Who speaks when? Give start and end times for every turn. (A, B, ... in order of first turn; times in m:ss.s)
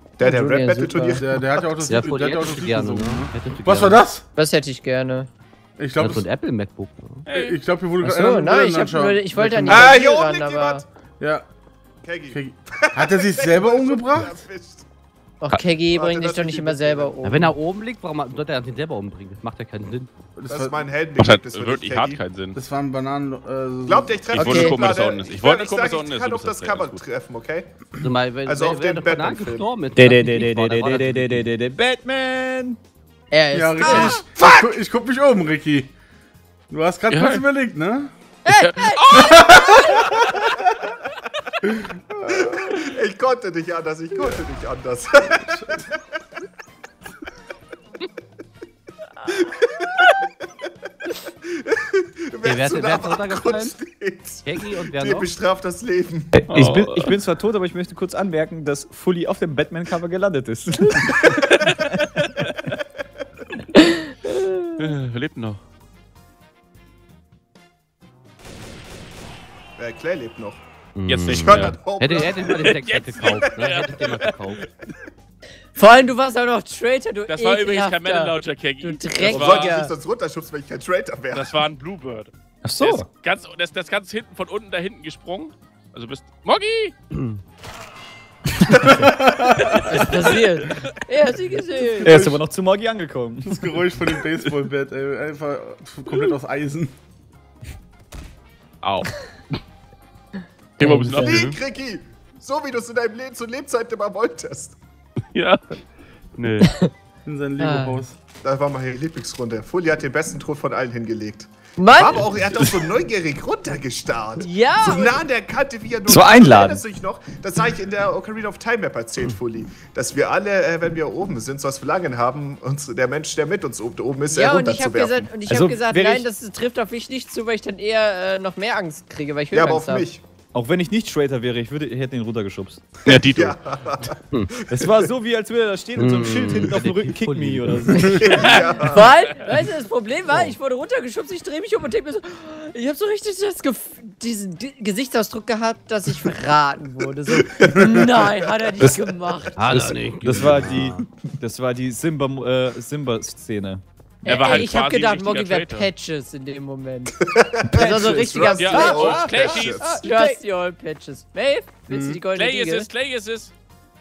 0:00.2-0:02.0 A
0:00.2-0:01.2 B
0:01.2-0:04.2 C
0:01.9-0:04.0 D
0:04.4-0:05.3 B
0:05.8-0:06.3 C
0:06.0-0:07.3 D
0:07.3-0:07.6 E
0:07.3-0:10.0 C
0:08.0-0:10.8 B
0:09.7-0:10.8 A
0:11.2-0:11.5 C
0:12.0-0:14.8 A
0:12.3-0:14.4 C
0:15.4-0:17.6 B
0:15.9-0:17.2 A
0:17.2-0:20.1 D
0:20.4-0:20.8 C
0:20.5-0:22.2 A
0:21.2-0:22.6 E
0:22.5-0:24.4 C
0:23.8-0:27.8 A
0:24.3-0:27.0 E
0:24.4-0:24.8 B
0:28.0-0:31.4 D
0:28.4-0:29.7 A
0:30.0-0:32.8 F
0:33.3-0:34.7 B
0:33.5-0:35.9 C
0:36.7-0:38.1 C
0:37.1-0:37.4 E
0:38.4-0:40.2 B
0:38.5-0:40.4 E
0:39.2-0:39.8 C
0:41.6-0:42.8 C
0:42.3-0:46.0 A
0:49.3-0:50.2 A
0:51.3-0:56.3 A
0:52.4-0:53.7 D
0:54.4-0:55.3 D
0:56.3-1:02.2 F
0:56.5-0:57.2 E
1:03.7-1:04.8 B
1:04.8-1:05.6 E
1:09.8-1:10.6 A
1:10.9-1:14.7 D
1:11.1-1:11.8 E
1:11.2-1:12.8 A
1:12.4-1:14.7 E
1:15.8-1:19.9 B
1:17.3-1:19.7 E
1:19.2-1:21.6 A
1:21.3-1:26.9 E
1:22.6-1:23.1 F
1:27.1-1:27.4 D
1:28.8-1:29.1 F
1:28.8-1:30.1 C
1:29.8-1:32.2 B
1:32.0-1:32.4 C
1:32.0-1:33.8 F
1:33.4-1:36.9 C
1:38.8-1:39.2 E
1:40.8-1:41.6 E
1:40.8-1:41.4 B
1:41.2-1:44.8 A
1:45.3-1:45.8 E
1:46.4-1:46.7 E
1:46.6-1:46.9 B
1:47.2-1:48.2 C
1:47.6-1:48.0 B
1:48.4-2:05.3 A
1:51.8-1:52.3 B
1:52.6-1:52.9 E
1:54.4-1:55.2 B
1:56.1-1:56.8 F
2:04.3-2:10.0 B
2:05.5-2:06.2 F
2:09.5-2:10.2 A
2:10.5-2:12.8 F
2:13.0-2:14.1 E
2:13.1-2:15.0 A
2:14.7-2:18.3 F
2:16.0-2:18.4 D
2:18.1-2:19.1 A
2:18.3-2:19.4 E
2:18.8-2:29.7 B
2:27.4-2:29.0 A
2:29.6-2:31.0 D
2:29.7-2:33.8 F
2:34.2-2:37.1 B
2:34.2-2:35.9 E
2:37.2-2:40.0 A
2:37.6-2:40.4 F
2:37.7-2:39.2 B
2:38.6-2:39.8 E
2:39.8-2:42.9 B
2:41.9-2:42.2 C
2:42.3-2:43.5 E